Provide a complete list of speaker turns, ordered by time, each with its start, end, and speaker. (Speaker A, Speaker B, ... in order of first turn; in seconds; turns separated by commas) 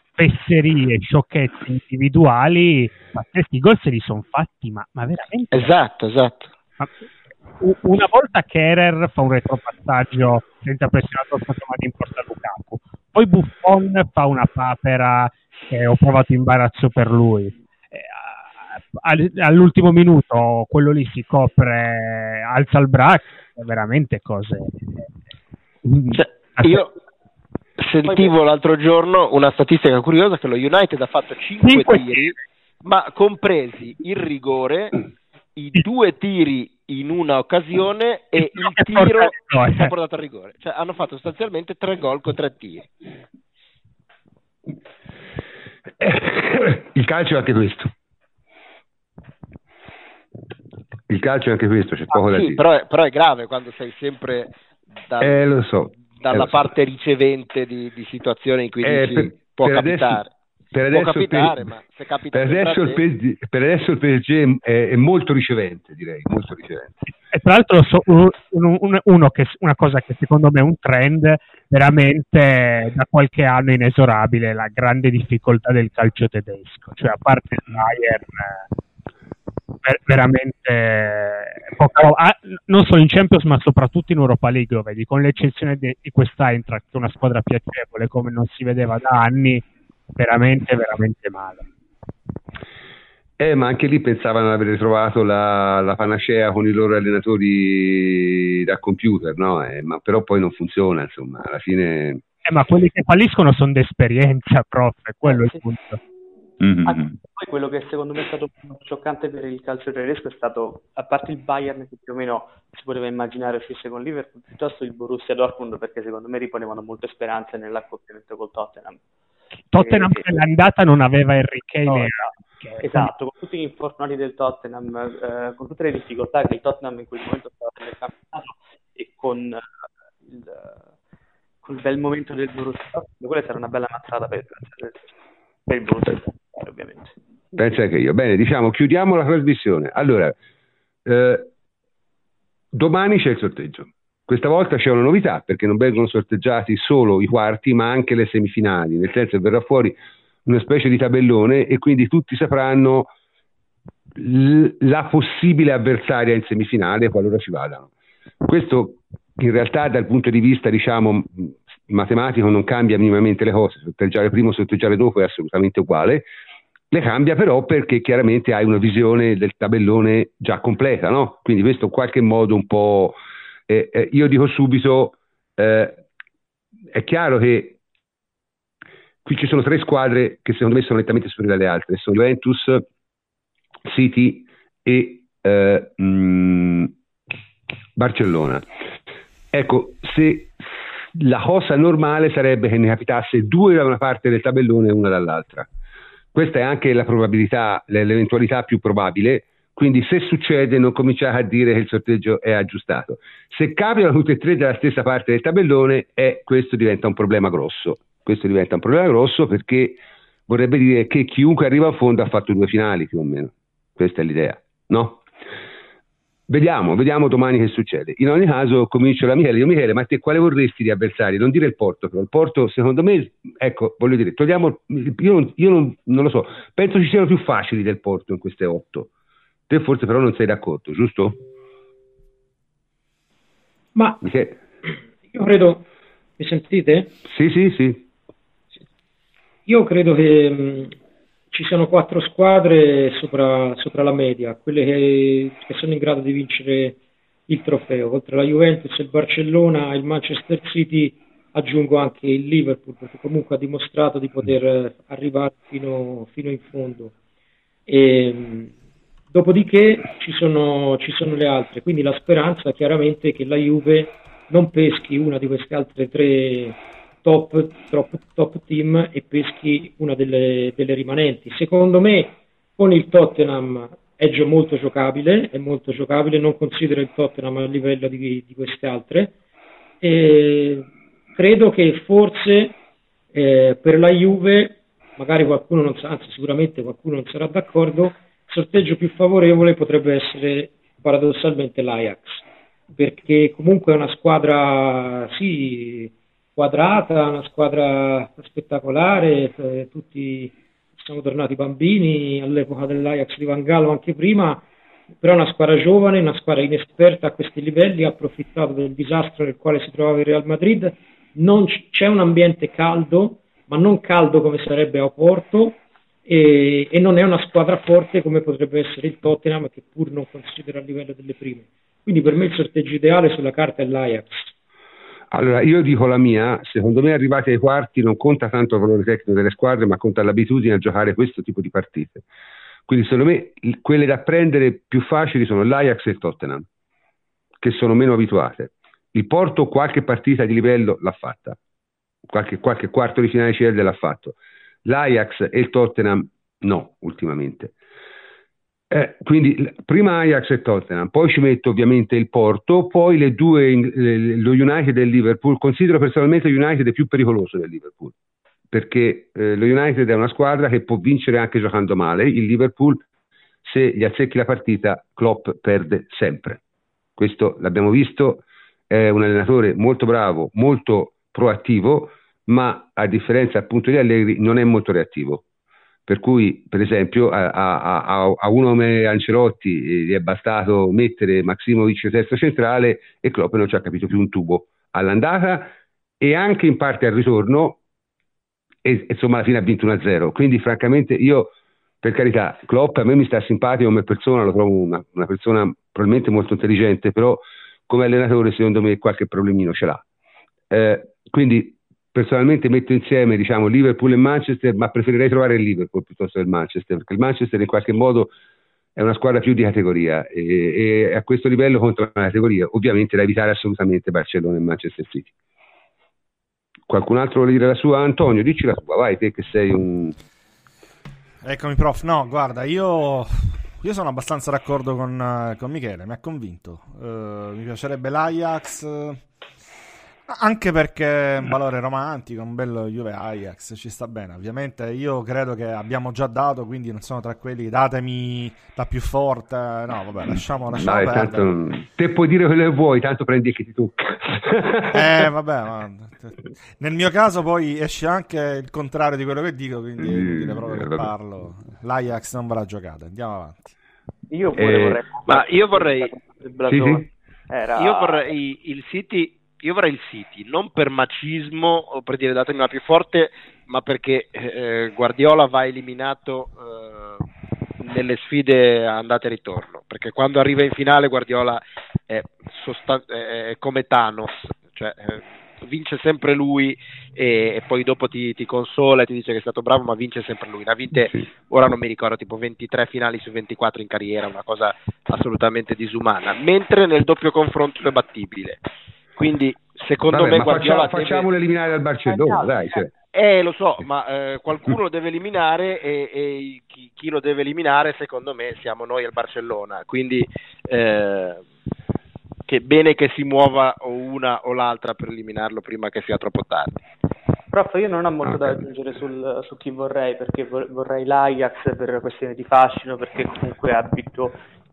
Speaker A: 0.2-5.7, Speaker B: 5.5-6.5, Speaker A: 7.6-25.0, Speaker A: 25.9-26.9, Speaker B: 26.1-26.9, Speaker B: 27.8-35.0, Speaker A: 31.6-32.3, Speaker B: 35.6-42.9, Speaker A: 38.4-39.9, Speaker C: 46.0-47.9, Speaker C: 51.1-52.6, Speaker B: 52.1-54.5, Speaker B: 55.1-55.5, Speaker C: 55.2-56.7, Speaker B: 56.1-60.3, Speaker C: 58.8-60.2, Speaker C: 60.7-61.7, Speaker B: 60.9-63.0, Speaker C: 62.3-67.1, Speaker A: 67.3-78.6, Speaker A: 79.8-89.7, Speaker A: 90.2-91.6, Speaker C: 93.4-102.2, Speaker A: 102.5-106.0, Speaker D: 105.2-105.6, Speaker C: 106.6-107.1, Speaker D: 106.8-119.0, Speaker A: 119.7-123.1, Speaker D: 119.7-120.3, Speaker D: 121.9-129.6, Speaker D: 130.3-130.8, Speaker D: 131.6-135.1, Speaker D: 135.7-137.2, Speaker C: 137.6-140.3, Speaker C: 141.1-141.5, Speaker C: 142.7-153.1, Speaker C: 154.2-157.9, Speaker C: 158.4-166.3, Speaker C: 166.9-176.0, Speaker C: 176.9-177.8, Speaker C: 179.2-182.9, Speaker C: 183.9-186.9, Speaker C: 188.0-188.7, Speaker C: 189.5-190.6, Speaker C: 191.1-195.7, Speaker C: 196.3-215.2, Speaker C: 216.5-229.1, Speaker C: 229.7-231.4, Speaker E: 233.9-234.2, Speaker C: 234.2-234.6, Speaker E: 235.3-235.8, Speaker E: 236.4-237.2, Speaker C: 237.2-238.1, Speaker E: 239.7-240.9, Speaker E: 241.5-257.1, Speaker E: 257.9-258.7, Speaker E: 259.3-279.3, Speaker E: 280.0-282.8, Speaker E: 283.3-304.6, Speaker E: 305.2-324.5, Speaker C: 325.3-332.2, Speaker C: 332.9-336.7, Speaker C: 337.6-341.6, Speaker C: 342.3-347.7, Speaker C: 348.9-358.1, Speaker C: 358.7-363.0, Speaker C: 363.6-366.6, Speaker C: 367.2-375.4, Speaker C: 376.1-387.8, Speaker C: 388.9-400.0, Speaker C: 400.7-408.3, Speaker C: 409.0-415.3, Speaker C: 416.9-420.2, Speaker F: 421.4-429.2, Speaker F: 430.3-441.5, Speaker C: 440.3-445.2, Speaker F: 444.9-453.7, Speaker C: 450.0-451.1, Speaker D: 454.3-458.3, Speaker C: 454.6-455.0, Speaker B: 455.3-456.1, Speaker C: 456.7-457.1, Speaker B: 457.8-467.2, Speaker B: 467.8-488.6, Speaker B: 489.2-491.3, Speaker C: 490.1-492.9, Speaker D: 492.1-492.6, Speaker B: 493.1-501.5, Speaker B: 502.5-506.8, Speaker D: 507.5-514.4, Speaker C: 508.2-508.6